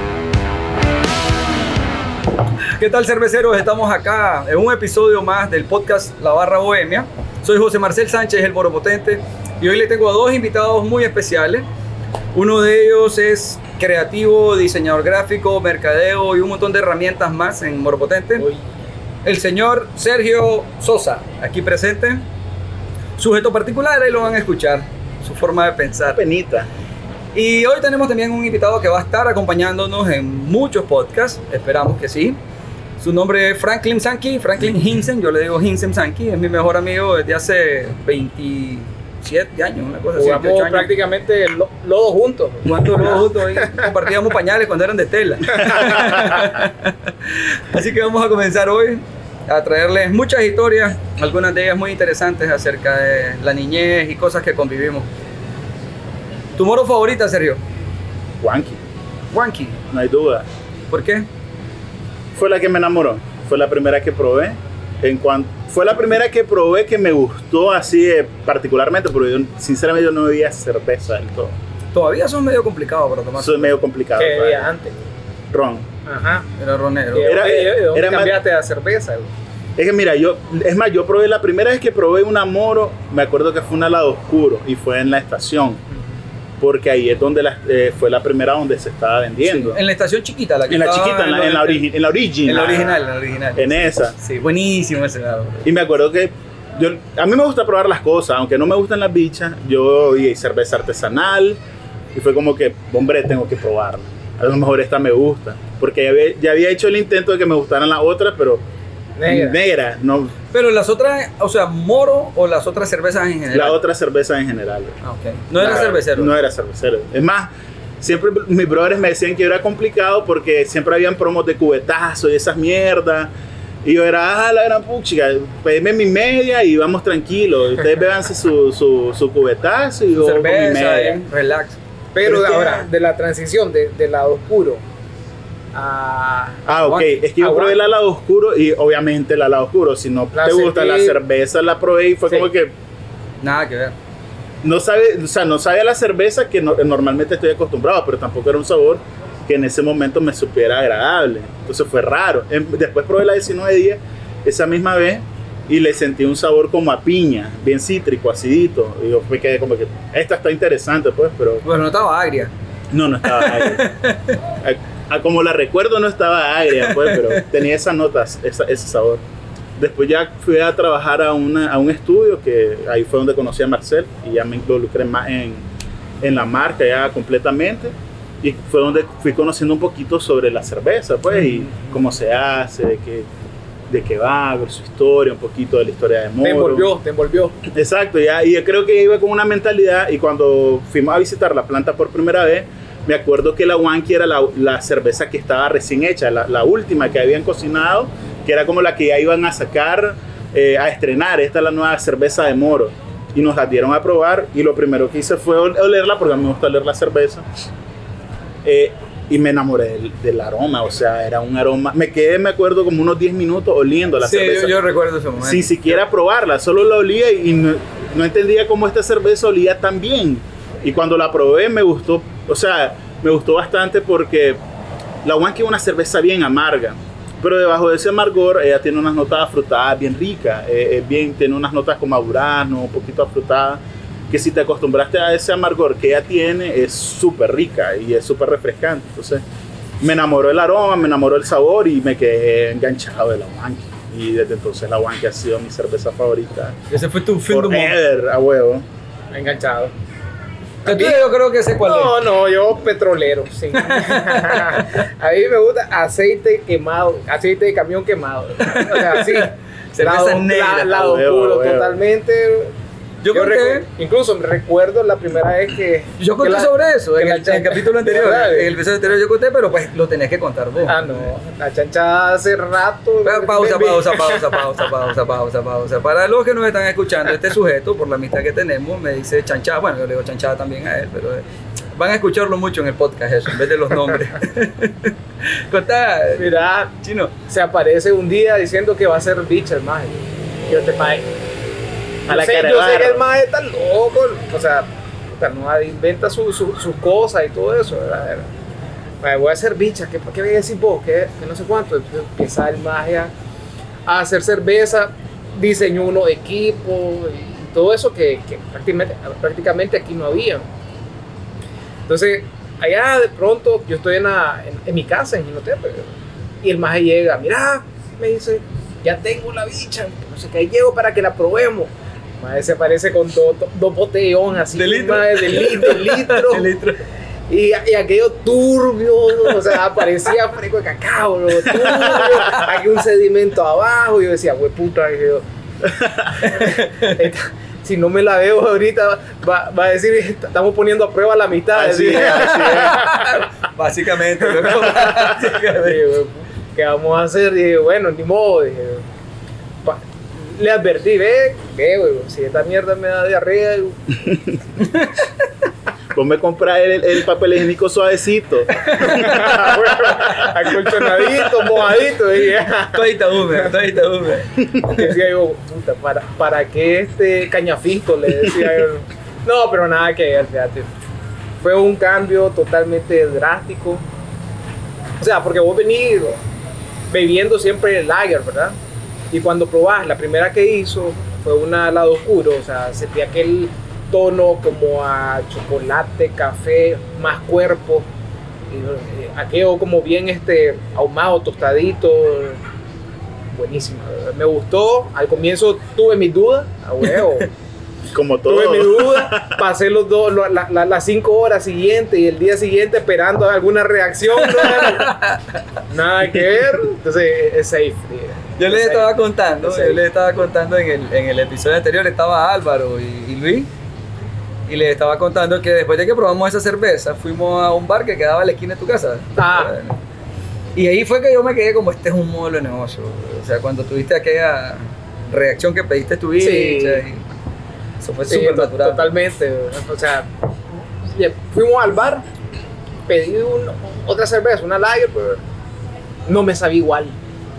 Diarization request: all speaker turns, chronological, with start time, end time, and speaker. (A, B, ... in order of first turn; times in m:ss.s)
0:02.8-0:11.6 A
0:12.3-0:18.5 A
0:18.4-0:18.6 B
0:19.2-0:22.2 A
0:23.2-0:26.2 A
0:26.1-0:26.7 C
0:27.3-0:32.4 A
0:33.0-0:40.9 A
0:40.2-0:43.9 B
0:42.6-0:55.1 A
0:45.6-0:46.2 B
0:56.6-0:57.6 A
0:58.4-0:58.8 C
0:59.3-0:59.8 A
0:59.9-1:00.4 C
1:00.9-1:01.3 A
1:02.3-1:11.6 C
1:11.9-1:13.7 A
1:13.4-1:14.7 C
1:14.2-1:14.9 B
1:15.5-1:15.9 C
1:16.0-1:16.5 B
1:16.6-1:17.4 A
1:17.1-1:19.3 B
1:17.2-1:18.4 C
1:19.8-1:25.8 C
1:26.6-1:29.8 C
1:29.4-1:31.9 A
1:30.7-1:33.0 C
1:32.4-1:35.7 A
1:33.6-1:34.1 C
1:35.6-1:41.6 C
1:42.1-1:48.6 C
1:49.2-1:49.6 B
1:49.3-1:50.3 C
1:50.5-1:53.8 A
1:53.5-1:55.0 C
1:55.0-1:56.3 A
1:55.6-2:03.3 C
2:03.8-2:11.2 C
2:10.2-2:11.8 A
2:12.1-2:14.8 B
2:12.2-2:12.8 C
2:15.7-2:16.7 B
2:16.6-2:22.7 C
2:17.4-2:17.8 B
2:20.3-2:21.2 B
2:23.4-2:24.0 A
2:24.6-2:41.6 C
2:41.6-2:42.5 A
2:42.9-2:43.8 C
2:43.2-2:44.4 A
2:44.6-2:49.2 C
2:46.8-2:47.4 A
2:49.8-2:55.6 C
2:56.2-3:03.3 C
3:01.4-3:01.8 B
3:03.9-3:06.9 C
3:06.4-3:07.6 B
3:07.7-3:27.4 C
3:28.6-3:34.8 C
3:34.2-3:36.0 A
3:35.4-3:44.6 C
3:45.2-3:59.4 C
4:00.0-4:06.8 C
4:06.9-4:08.0 A
4:07.5-4:08.8 C
4:09.3-4:09.9 B
4:10.8-4:12.2 A
4:10.8-4:22.7 B
4:13.7-4:15.0 A
4:18.6-4:21.0 A
4:20.9-4:22.0 C
4:23.2-4:23.9 A
4:23.3-4:28.8 B
4:26.2-4:31.3 A
4:30.8-4:34.9 B
4:33.2-4:47.3 A
4:46.4-4:46.9 B
4:47.5-4:51.2 B
4:52.3-4:53.2 C
4:52.3-4:58.5 B
4:59.2-5:03.3 B
5:04.0-5:10.6 B
5:12.1-5:16.1 B
5:16.6-5:26.7 B
5:24.7-5:27.0 A
5:27.5-5:35.4 B
5:31.7-5:32.4 A
5:36.0-5:36.3 C
5:36.4-5:37.2 A
5:36.4-5:43.4 B
5:41.7-5:43.0 C
5:42.2-5:46.0 A
5:44.6-5:49.0 B
5:49.8-5:54.2 B
5:54.8-5:55.4 A
5:56.1-6:00.1 C
5:58.8-6:00.5 A
5:59.0-6:03.7 B
6:02.9-6:05.1 A
6:04.8-6:10.9 B
6:11.6-6:14.0 B
6:15.2-6:16.4 B
6:17.1-6:18.7 B
6:19.3-6:28.1 B
6:28.7-6:32.6 B
6:33.5-6:37.5 B
6:38.1-6:39.6 C
6:38.4-6:45.1 B
6:44.4-6:45.6 A
6:45.9-6:50.0 B
6:48.6-6:53.7 A
6:54.7-7:00.0 A
6:59.4-6:59.7 B
7:00.7-7:07.2 A
7:06.4-7:07.0 B
7:08.0-7:09.1 A
7:08.3-7:12.2 B
7:13.1-7:15.4 B
7:16.3-7:17.2 B